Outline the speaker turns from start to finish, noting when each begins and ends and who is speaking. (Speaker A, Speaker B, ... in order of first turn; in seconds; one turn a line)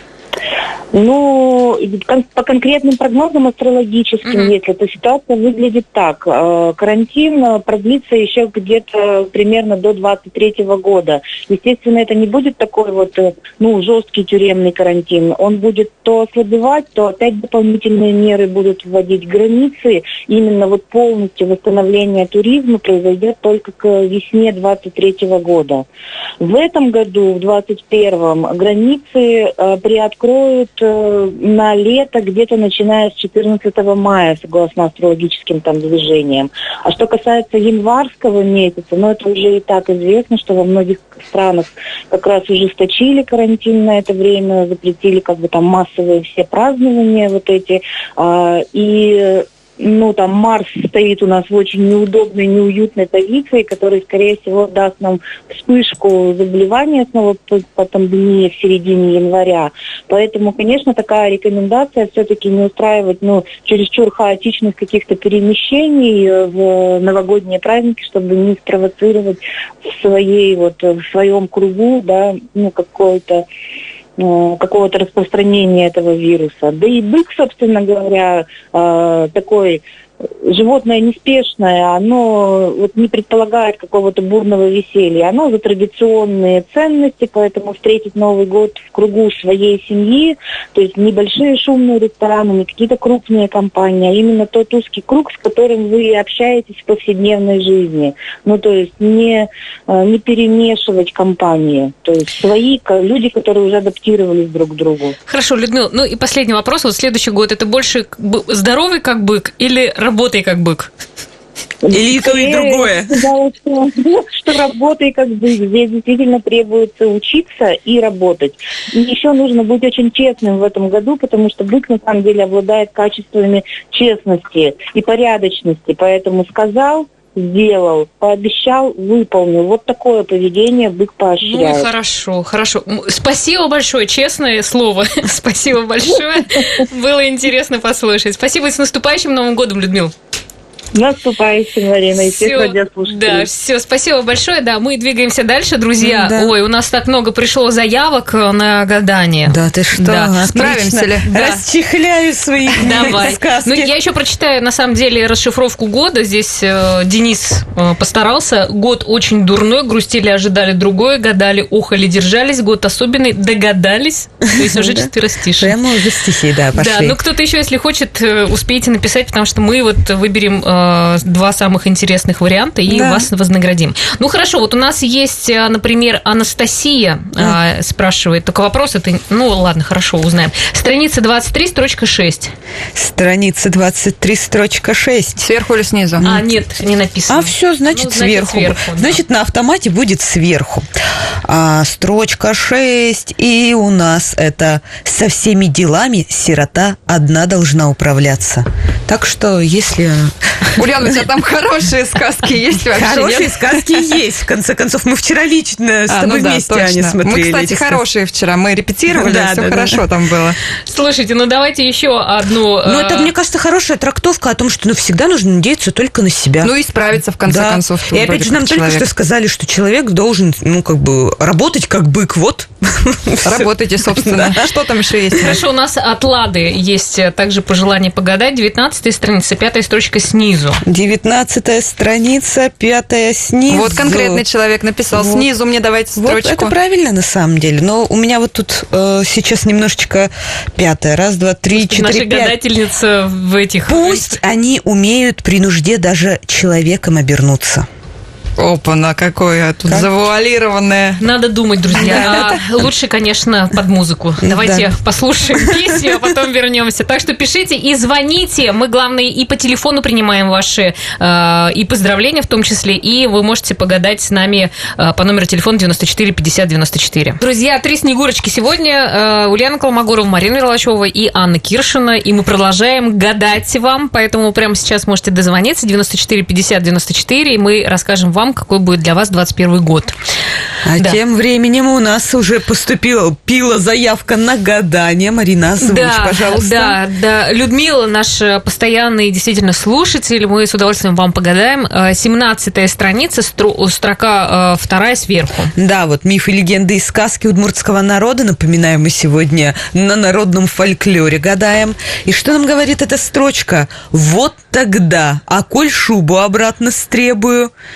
Speaker A: 0.9-25.8
Speaker B: 4.2-4.5
Speaker A: 26.4-73.4
Speaker A: 74.2-79.8
Speaker A: 80.4-105.2
Speaker B: 105.3-110.9
Speaker A: 111.8-131.9
Speaker C: 111.9-113.2
Speaker B: 131.4-140.1
Speaker A: 140.9-143.5
Speaker B: 142.2-150.7
Speaker C: 146.0-146.5
Speaker C: 149.5-153.9
Speaker D: 150.0-151.3
Speaker B: 151.2-151.6
Speaker B: 152.8-165.8
Speaker C: 164.6-165.1
Speaker C: 165.6-167.2
Speaker B: 166.7-182.5
Speaker C: 172.9-173.3
Speaker C: 182.9-185.4
Speaker D: 185.4-186.3
Speaker C: 186.2-186.5
Speaker B: 186.2-189.2
Speaker C: 187.3-190.9
Speaker C: 191.4-201.1
Speaker D: 200.8-204.2
Speaker C: 202.9-208.0
Speaker D: 206.1-210.6
Speaker C: 209.1-210.0
Speaker B: 210.9-213.3
Speaker C: 212.8-216.7
Speaker D: 216.6-219.1
Speaker C: 217.4-224.6
Speaker D: 223.4-225.6
Speaker B: 225.4-230.8
Speaker C: 230.8-234.4
Speaker D: 233.7-236.8
Speaker C: 235.1-235.4
Speaker C: 236.2-242.5
Speaker B: 241.7-244.3
Speaker C: 243.9-247.9
Speaker D: 248.6-251.2
Speaker B: 251.2-280.1
Speaker C: 251.9-252.7
Speaker C: 254.4-254.9
Speaker C: 255.5-256.1
Speaker C: 280.8-287.0
Speaker B: 285.8-295.7
Speaker C: 295.8-307.7